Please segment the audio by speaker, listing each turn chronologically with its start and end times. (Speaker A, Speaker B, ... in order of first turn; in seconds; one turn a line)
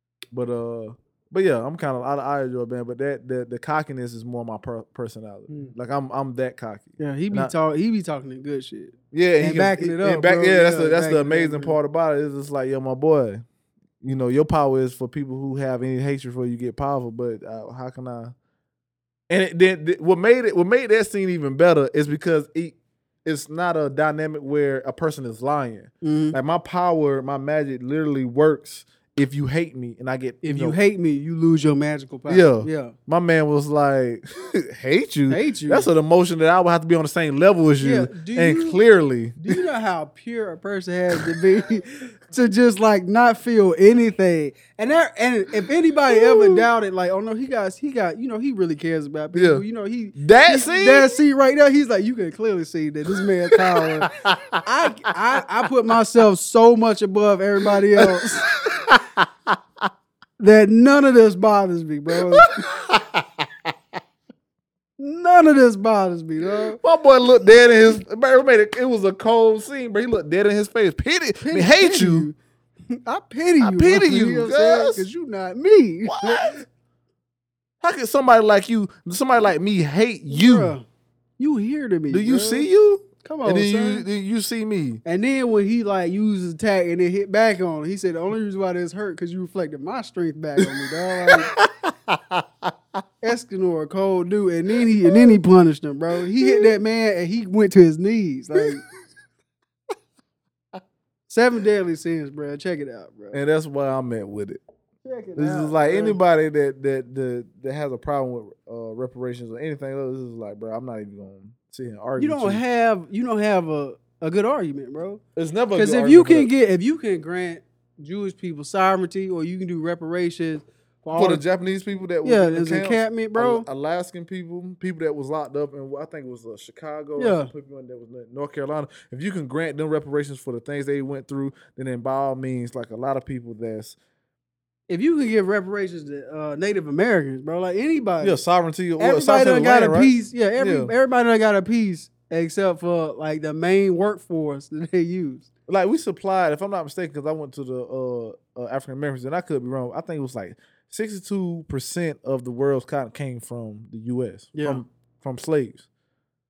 Speaker A: 0.3-7.5
Speaker B: 7.0-11.8
Speaker A: 9.1-13.4
Speaker A: 14.0-18.3
Speaker A: 19.3-30.8
Speaker B: 26.0-26.4
Speaker B: 30.4-33.0
Speaker A: 32.3-39.6
Speaker B: 35.3-35.9
Speaker B: 37.8-38.8
Speaker B: 39.4-54.1
Speaker A: 46.1-46.7
Speaker A: 49.3-49.6
Speaker A: 50.2-51.2
Speaker A: 53.5-54.6
Speaker B: 54.6-58.5
Speaker A: 58.0-59.9
Speaker B: 60.4-62.6
Speaker A: 62.1-63.7
Speaker B: 65.0-66.8
Speaker A: 66.6-72.3
Speaker B: 71.4-72.4
Speaker B: 72.9-76.4
Speaker A: 73.6-75.1
Speaker A: 76.1-76.7
Speaker A: 77.8-80.8
Speaker B: 80.3-80.8
Speaker B: 81.4-82.7
Speaker A: 82.1-85.0
Speaker B: 83.2-84.1
Speaker B: 85.0-91.5
Speaker A: 90.6-92.7
Speaker B: 93.2-98.8
Speaker A: 94.8-95.3
Speaker A: 96.4-96.7
Speaker A: 98.6-98.9
Speaker B: 101.3-103.4
Speaker A: 103.3-104.6
Speaker B: 105.0-106.2
Speaker A: 105.4-112.6
Speaker B: 112.2-115.2
Speaker A: 115.4-116.5
Speaker B: 115.7-121.4
Speaker A: 121.2-134.0
Speaker B: 122.2-123.7
Speaker B: 127.2-127.5
Speaker B: 134.9-138.4
Speaker A: 138.2-140.9
Speaker B: 139.0-145.5
Speaker A: 145.7-155.9
Speaker B: 154.6-154.8